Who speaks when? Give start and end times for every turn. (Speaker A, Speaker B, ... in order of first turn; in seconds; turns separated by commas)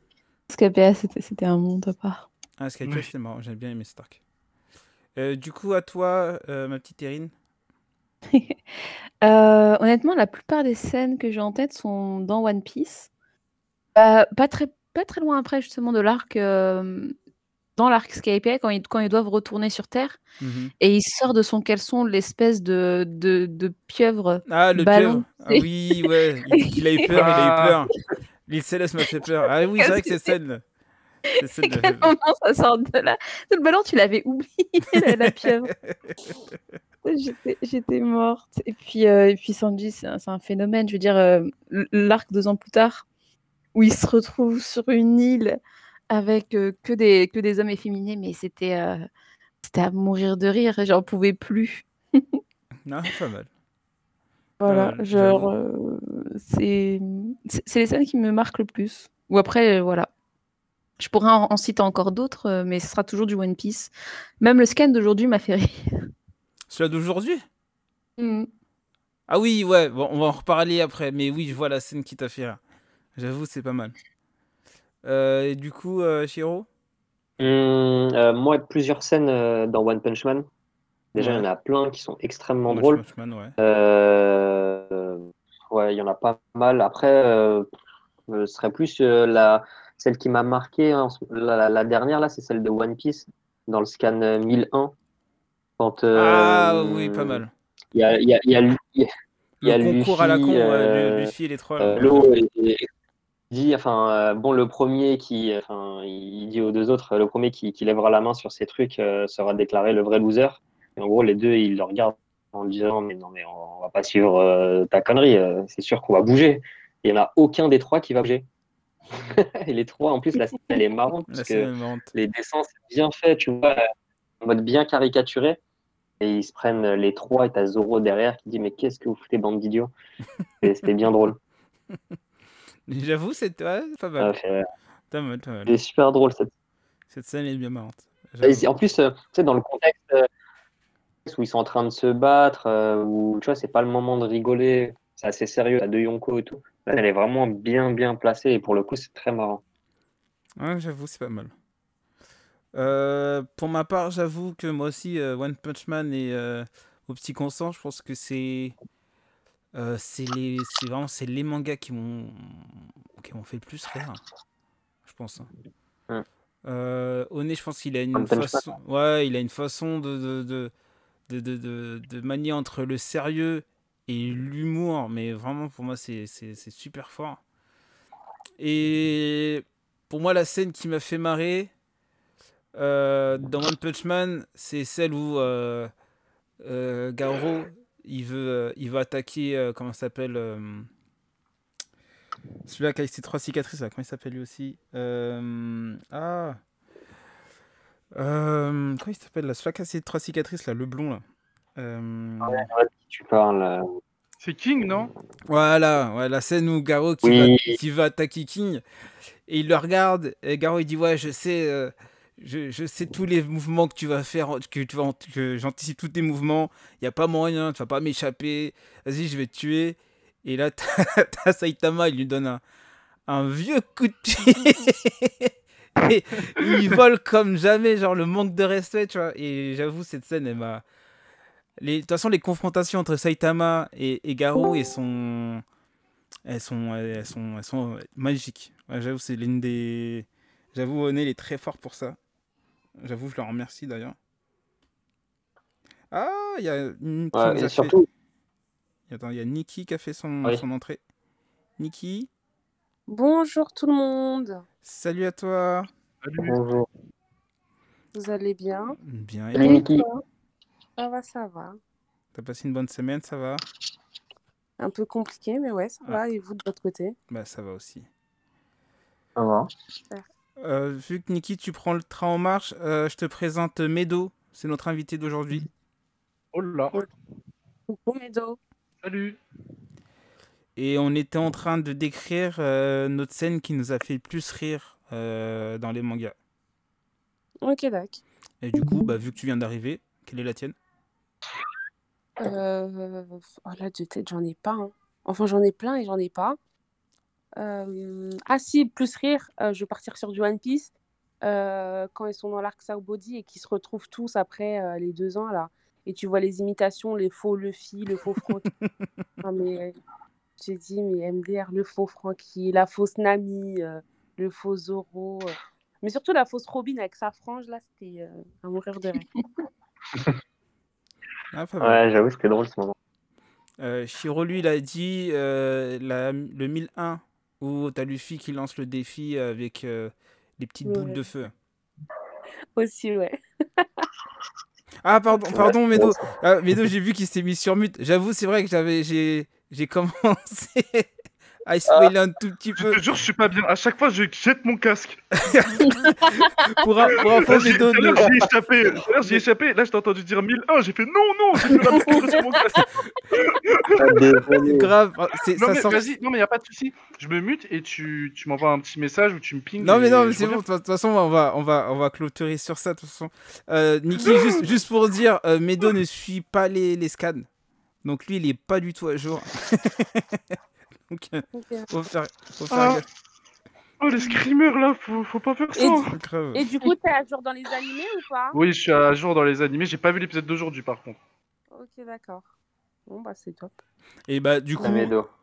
Speaker A: 0.5-2.3, Speaker B: 2.6-4.2, Speaker B: 5.2-7.3, Speaker A: 8.3-8.6, Speaker A: 9.2-13.1, Speaker A: 13.9-17.1, Speaker A: 17.8-20.2, Speaker B: 20.4-20.7, Speaker A: 20.8-27.2, Speaker B: 24.5-27.9, Speaker C: 27.1-27.8, Speaker B: 28.5-30.6, Speaker A: 29.8-30.3, Speaker B: 31.4-32.1, Speaker A: 31.6-35.7, Speaker B: 35.0-36.1, Speaker A: 37.0-43.1, Speaker A: 43.8-45.6, Speaker A: 46.1-49.1, Speaker A: 49.6-52.4, Speaker B: 52.9-53.5, Speaker A: 54.6-60.1, Speaker B: 54.7-55.5, Speaker A: 61.0-65.8, Speaker B: 66.7-67.4, Speaker A: 68.2-68.5, Speaker B: 69.3-72.6, Speaker B: 73.2-73.9, Speaker B: 75.0-76.7, Speaker D: 77.4-80.5, Speaker D: 81.1-83.0, Speaker B: 81.2-81.5, Speaker B: 82.7-83.6, Speaker D: 83.6-87.7, Speaker D: 88.3-94.9, Speaker D: 95.8-97.4, Speaker B: 96.1-97.5, Speaker D: 97.9-99.1, Speaker B: 99.6-102.3, Speaker D: 99.6-102.9, Speaker D: 103.5-118.5, Speaker D: 119.2-123.8, Speaker B: 121.3-122.1, Speaker D: 124.4-125.6, Speaker D: 126.2-129.9, Speaker D: 130.6-131.4, Speaker B: 132.9-134.3, Speaker D: 134.2-134.7, Speaker B: 135.1-135.8, Speaker D: 135.7-136.5, Speaker B: 137.1-138.7, Speaker D: 138.4-140.3, Speaker D: 141.3-149.6, Speaker B: 150.6-151.5, Speaker B: 152.7-158.8, Speaker B: 159.7-164.2, Speaker B: 165.1-165.5, Speaker B: 166.7-170.7, Speaker D: 168.2-168.6, Speaker B: 171.3-177.4, Speaker B: 178.6-181.7, Speaker B: 182.8-185.9, Speaker B: 186.6-190.9, Speaker B: 192.7-196.6, Speaker B: 198.2-201.2, Speaker B: 201.8-202.7, Speaker D: 202.4-203.9, Speaker C: 204.4-205.1, Speaker B: 205.5-208.8, Speaker D: 207.2-207.8, Speaker B: 209.5-222.6, Speaker B: 223.3-230.8, Speaker B: 231.8-235.6, Speaker B: 236.5-242.2, Speaker B: 243.0-244.2, Speaker B: 246.1-247.9, Speaker D: 247.3-248.1, Speaker B: 249.1-251.0, Speaker B: 251.8-252.3, Speaker E: 253.1-254.6, Speaker B: 254.8-255.9, Speaker C: 256.2-256.6, Speaker D: 256.5-256.9, Speaker E: 258.1-259.0, Speaker B: 259.0-259.8, Speaker D: 259.6-260.1, Speaker E: 261.0-261.8, Speaker B: 262.3-263.6, Speaker E: 264.8-267.2, Speaker B: 267.3-268.1, Speaker D: 269.4-269.7, Speaker B: 270.6-275.7, Speaker C: 276.5-277.0, Speaker E: 277.9-278.6, Speaker C: 279.0-279.4, Speaker B: 280.8-286.3, Speaker E: 287.6-288.2, Speaker B: 288.6-290.7, Speaker E: 292.4-296.6, Speaker E: 297.6-300.9, Speaker E: 301.4-308.7, Speaker E: 309.4-310.0, Speaker E: 310.6-319.4, Speaker B: 321.5-322.0, Speaker D: 321.8-323.0, Speaker B: 323.8-331.5, Speaker E: 330.9-331.2, Speaker E: 332.8-334.1, Speaker B: 335.0-341.1, Speaker D: 335.5-336.2, Speaker B: 341.7-343.0, Speaker C: 342.8-345.3, Speaker B: 345.4-348.3, Speaker C: 347.1-354.4, Speaker A: 351.9-352.6, Speaker D: 354.0-354.9, Speaker B: 354.6-356.2, Speaker C: 355.6-360.6, Speaker B: 359.8-367.5, Speaker B: 368.0-370.5, Speaker B: 371.1-373.1, Speaker E: 371.5-371.9, Speaker C: 372.7-373.0, Speaker C: 374.0-376.1, Speaker E: 375.8-378.6, Speaker B: 376.1-376.6, Speaker C: 378.5-381.2, Speaker E: 381.7-382.5, Speaker E: 383.1-383.8, Speaker B: 384.3-385.1, Speaker D: 384.8-385.3